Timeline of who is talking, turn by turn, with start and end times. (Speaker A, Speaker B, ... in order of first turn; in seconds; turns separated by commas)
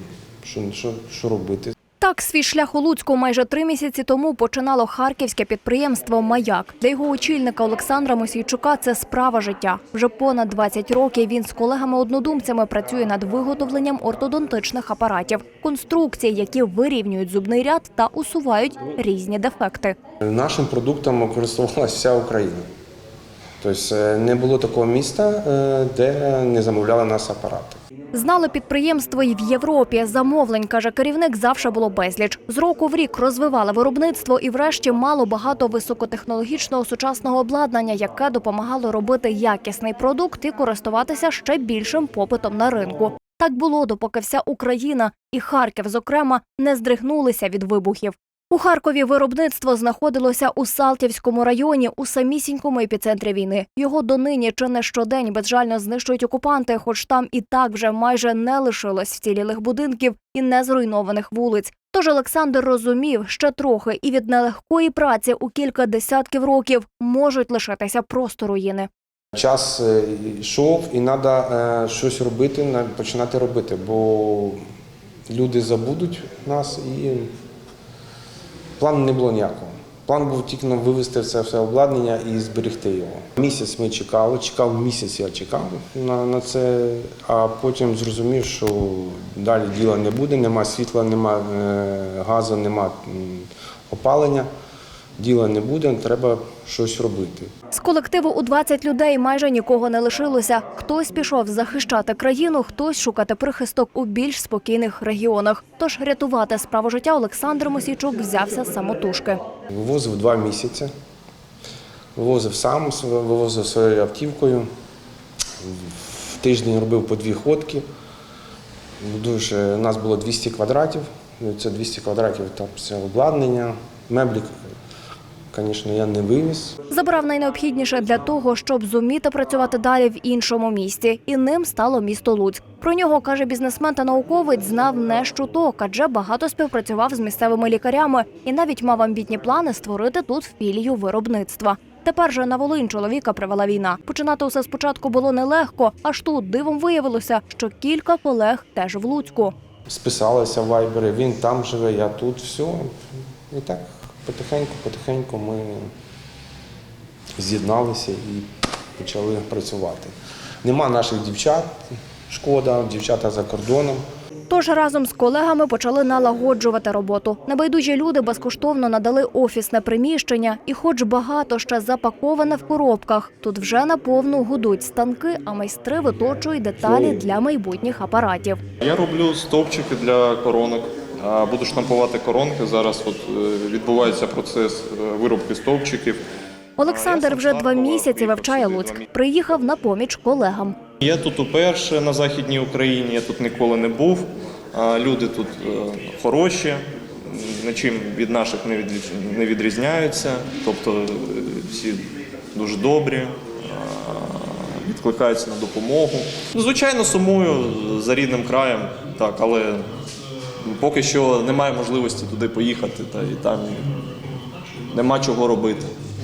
Speaker A: 0.4-1.7, Speaker B: 2.0-19.9, Speaker A: 20.2-22.6, Speaker A: 23.6-27.8, Speaker B: 28.1-68.9, Speaker A: 69.3-74.6, Speaker A: 75.3-77.3, Speaker A: 78.8-94.5, Speaker A: 95.2-97.5, Speaker B: 97.7-109.4, Speaker A: 109.7-110.9, Speaker A: 112.2-114.7, Speaker A: 115.6-117.8, Speaker A: 119.0-124.7, Speaker A: 125.5-126.7, Speaker B: 126.9-149.5, Speaker A: 149.9-153.0, Speaker A: 153.5-155.9, Speaker A: 157.4-158.5, Speaker A: 159.0-160.1, Speaker A: 160.6-164.0, Speaker B: 164.5-178.6, Speaker A: 176.8-177.2, Speaker C: 178.8-186.2, Speaker B: 186.8-190.8, Speaker C: 186.8-189.1, Speaker C: 191.0-209.9, Speaker C: 210.6-214.0, Speaker C: 214.9-215.9